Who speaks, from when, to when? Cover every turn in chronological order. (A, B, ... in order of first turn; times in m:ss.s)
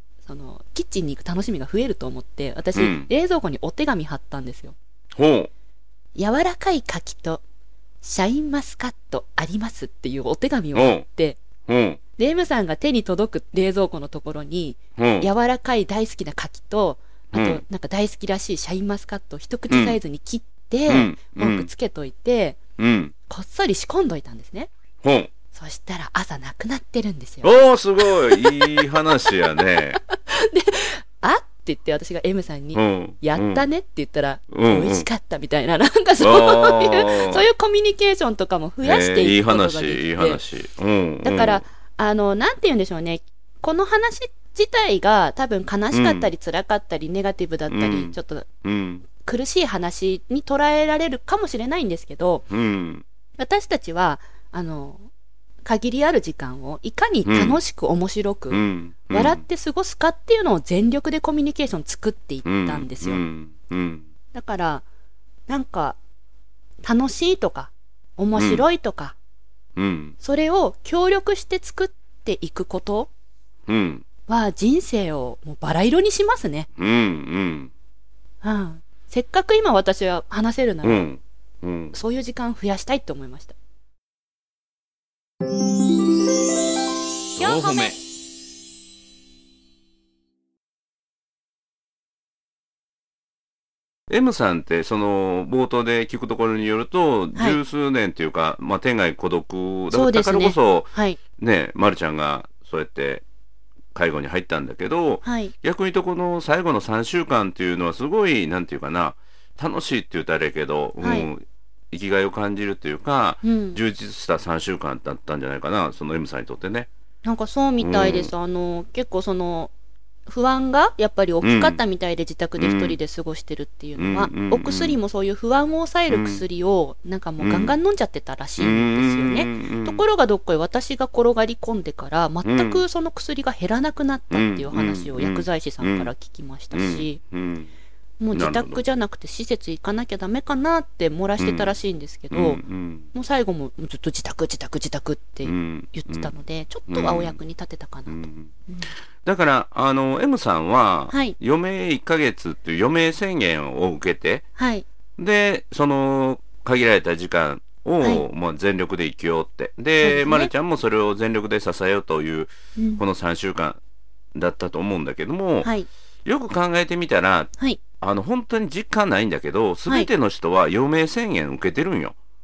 0:00.2-0:04.8 A
0:02.7-0:03.1 B
0:05.1-0:05.5 B
0:06.1-0:07.4 A
0:08.0-0:11.4 A
0:10.7-0:11.0 B
0:11.7-0:12.0 B
0:12.2-0:22.6 A
0:15.0-0:15.3 B
0:17.3-0:17.6 B
0:19.7-0:20.0 B
0:20.9-0:21.7 B
0:22.8-0:23.1 B
0:23.3-0:24.7 A
0:25.0-0:25.3 B
0:25.5-0:40.4 A
0:27.4-0:30.0 B
0:32.7-0:33.6 B
0:34.5-0:35.0 B
0:36.2-0:37.4 B
0:38.8-0:41.6 B
0:41.2-0:48.5 A
0:45.9-0:46.3 B
0:47.7-0:49.0 B
0:49.2-0:52.4 A
0:52.5-0:53.0 B
0:53.4-0:55.1 A
0:55.6-1:03.2 A
0:57.2-0:57.6 B
0:58.5-0:59.4 B
1:02.4-1:04.1 B
1:04.3-1:04.8 A
1:05.5-1:06.0 A
1:06.8-1:09.2 A
1:08.3-1:08.6 B
1:09.8-1:10.2 B
1:10.2-1:13.1 A
1:13.7-1:14.0 B
1:14.3-1:16.7 A
1:16.8-1:17.7 B
1:18.4-1:21.1 A
1:20.8-1:21.9 B
1:21.9-1:23.5 A
1:27.4-1:28.0 A
1:27.4-1:27.9 B
1:34.1-1:43.2 B
1:39.9-1:41.2 A
1:43.9-1:56.9 B
1:45.2-1:45.5 A
1:51.0-1:51.3 A
1:53.4-1:53.8 A
1:57.2-1:59.7 A
1:57.8-1:58.3 B
2:00.3-2:17.2 A
2:01.4-2:01.8 B
2:02.6-2:03.0 B
2:04.0-2:05.0 B
2:06.1-2:06.4 B
2:07.4-2:07.7 B
2:08.6-2:10.0 B
2:12.4-2:12.8 B
2:14.3-2:16.1 B
2:16.7-2:17.7 B
2:18.2-2:22.6 A
2:18.3-2:18.8 B
2:21.4-2:21.7 B
2:22.3-2:23.1 B
2:23.1-2:28.9 A
2:25.4-2:26.3 B
2:26.9-2:27.4 B
2:28.1-2:28.5 B
2:29.2-2:34.4 B
2:31.1-2:31.4 A
2:34.6-2:34.9 A
2:35.2-2:43.8 B
2:40.0-2:40.5 A
2:42.8-2:43.0 A
2:44.3-2:45.7 B
2:45.6-2:45.9 A
2:46.2-2:52.2 B